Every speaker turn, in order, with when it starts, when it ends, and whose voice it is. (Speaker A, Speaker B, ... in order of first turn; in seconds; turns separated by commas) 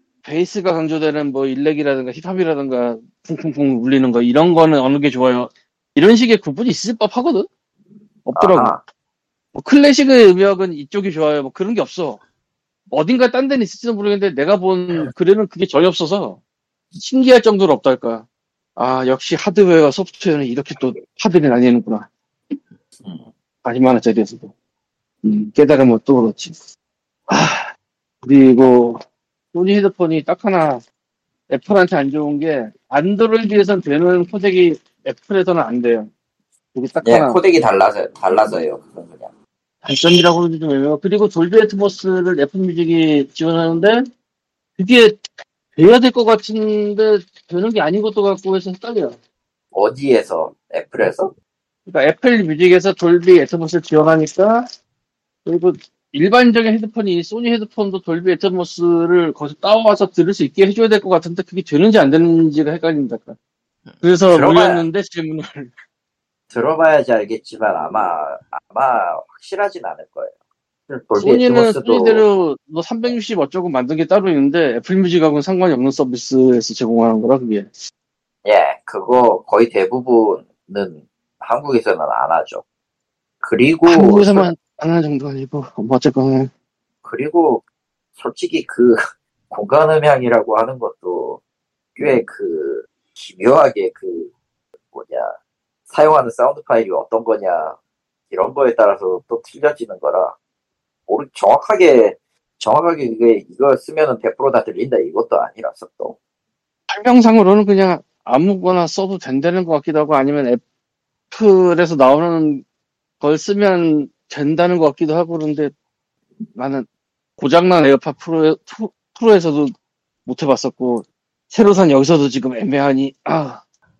Speaker A: 0.2-7.5, Speaker A: 8.2-8.8, Speaker B: 8.3-8.8, Speaker A: 9.5-12.2, Speaker A: 12.9-16.4, Speaker A: 16.9-22.1, Speaker A: 23.6-24.5, Speaker A: 25.2-26.6, Speaker A: 27.3-27.7, Speaker A: 28.2-29.0, Speaker A: 29.5-30.8, Speaker A: 31.5-36.1, Speaker A: 36.7-37.4, Speaker B: 37.0-39.3, Speaker A: 39.8-44.0, Speaker A: 44.8-45.2, Speaker A: 45.8-49.2, Speaker B: 49.7-51.3, Speaker A: 51.9-54.7, Speaker A: 55.4-63.4, Speaker A: 64.0-65.7, Speaker B: 64.3-64.8, Speaker B: 66.5-70.3, Speaker B: 70.9-72.2, Speaker A: 71.2-77.7, Speaker B: 78.4-82.6, Speaker B: 83.4-84.5, Speaker A: 83.9-86.5, Speaker B: 87.0-87.6, Speaker B: 88.2-89.0, Speaker B: 89.5-91.4, Speaker B: 92.0-94.3, Speaker B: 94.9-95.3, Speaker B: 95.9-97.8, Speaker B: 98.3-100.3, Speaker B: 101.1-106.2, Speaker A: 106.9-110.6, Speaker A: 111.3-112.6, Speaker A: 113.2-115.7, Speaker A: 116.5-116.9, Speaker A: 117.4-119.7, Speaker A: 120.2-123.6